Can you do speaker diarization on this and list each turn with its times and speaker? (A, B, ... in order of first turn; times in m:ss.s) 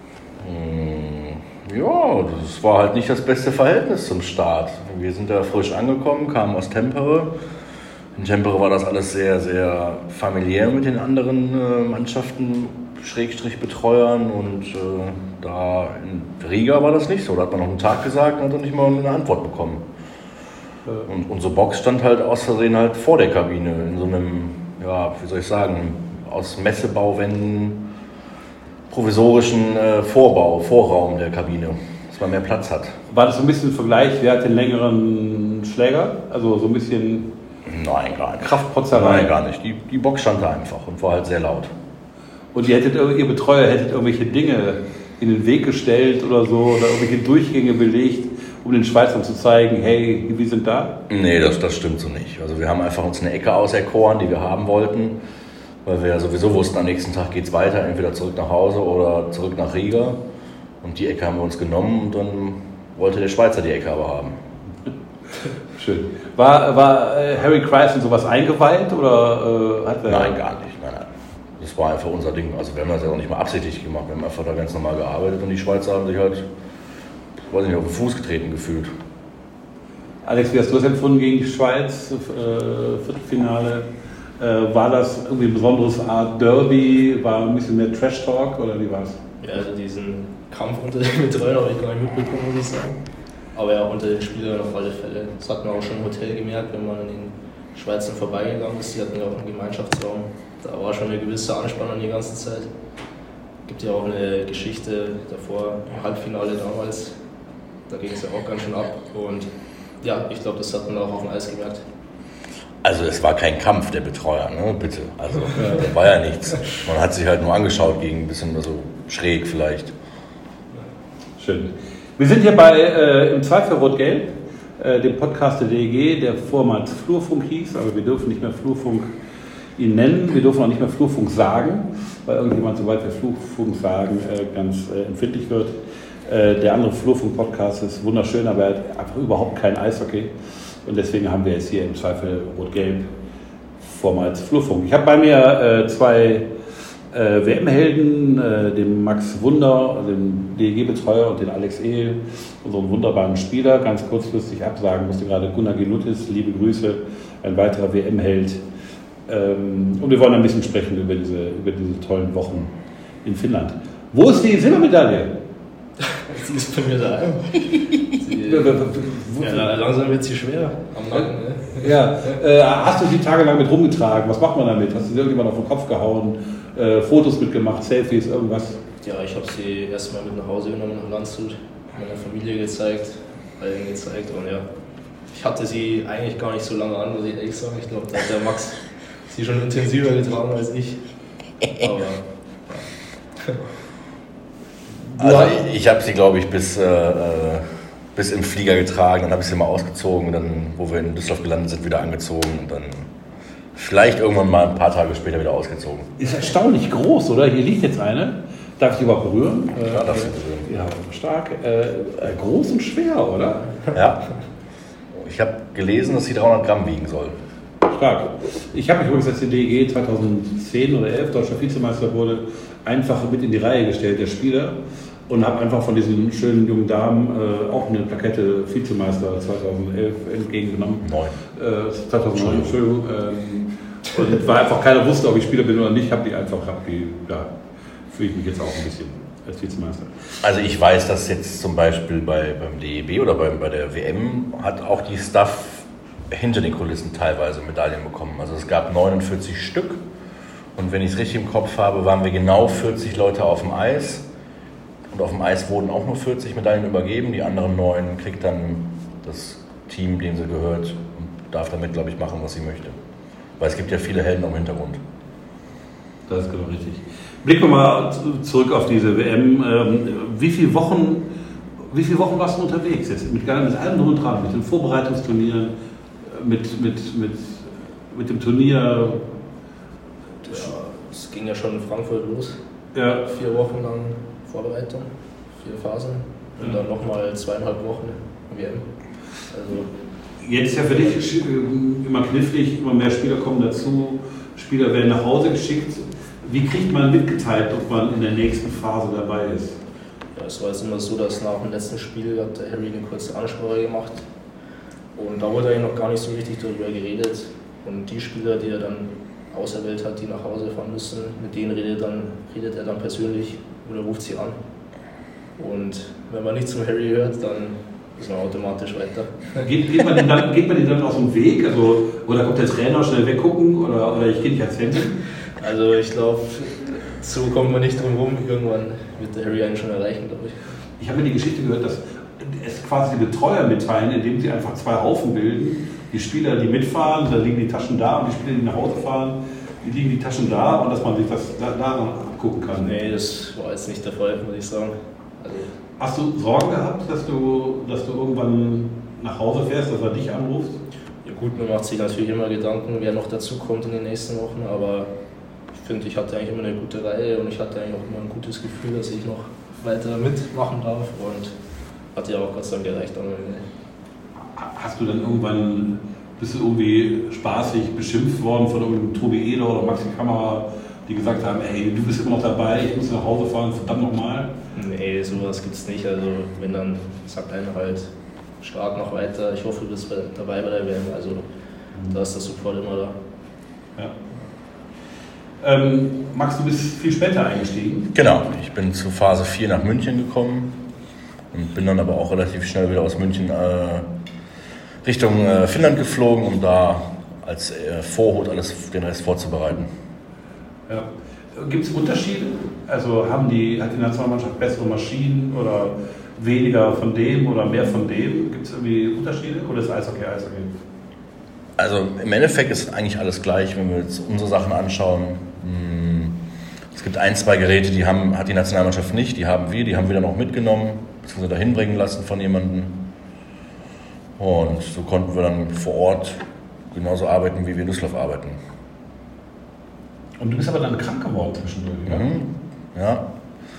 0:00.4-0:07.3 A
0:08.2-0:19.8 A
0:21.0-0:27.9 A
0:28.9-0:33.0 A
0:33.1-0:37.3 B
0:37.6-0:41.7 A
0:38.4-0:39.3 B
0:42.5-0:50.9 B
0:51.1-0:55.2 A
0:55.8-1:00.2 A
1:00.8-1:04.4 A
1:05.7-1:10.4 B
1:10.1-1:16.4 A
1:17.4-1:18.9 A
1:20.2-1:23.9 B
1:24.4-1:29.2 B
1:29.4-1:33.0 C
1:33.5-1:42.7 C
1:43.7-1:47.2 C
1:47.9-1:49.5 C
1:50.0-1:51.8 C
1:52.8-1:59.9 A
1:55.5-1:55.8 B
2:01.4-2:09.1 B
2:09.8-2:23.1 B
2:23.8-2:26.5 B
2:27.1-2:38.6 B
2:39.3-2:42.7 B
2:43.2-2:45.3 B
2:46.1-2:48.8 C
2:48.4-2:49.7 B
2:49.4-2:52.3 C
2:51.1-2:58.8 B
2:59.0-3:04.6 C
3:05.3-3:11.0 C
3:11.8-3:12.9 C
3:15.1-3:15.6 B
3:15.2-3:23.1 A
3:23.7-3:26.1 A
3:26.2-3:33.7 B
3:29.8-3:30.7 A
3:33.9-3:34.2 A
3:35.1-3:37.4 A
3:37.9-3:44.8 B
3:45.3-3:57.5 B
3:51.0-3:51.3 A
3:52.3-3:52.7 A
3:58.1-4:00.2 B
4:00.4-4:10.0 A
4:10.8-4:14.2 A
4:15.1-4:23.0 A
4:23.6-4:25.0 A
4:26.3-4:31.3 B
4:31.8-4:35.7 B
4:36.2-4:39.2 B
4:40.4-4:42.6 C
4:42.9-4:43.2 B
4:43.2-4:48.9 C
4:49.5-4:49.9 C
4:50.4-4:59.8 B
5:00.3-5:04.3 C
5:05.1-5:14.6 C
5:15.6-5:19.6 C
5:19.5-5:25.2 B
5:25.6-5:30.8 C
5:31.0-5:42.9 B
5:42.8-5:45.7 C
5:46.0-5:50.8 B
5:51.2-5:55.1 C
5:55.8-6:01.5 C
6:02.1-6:03.6 C
6:04.6-6:14.5 B
6:14.7-6:18.1 C
6:18.6-6:21.5 C
6:22.1-6:23.2 C
6:25.6-6:28.1 B
6:28.1-6:30.8 A
6:31.5-6:34.0 A
6:35.0-6:39.9 A
6:40.9-6:50.7 B
6:51.8-6:56.4 A
6:56.9-7:03.0 A
7:04.4-7:08.6 A
7:10.4-7:12.3 B
7:12.1-7:13.3 A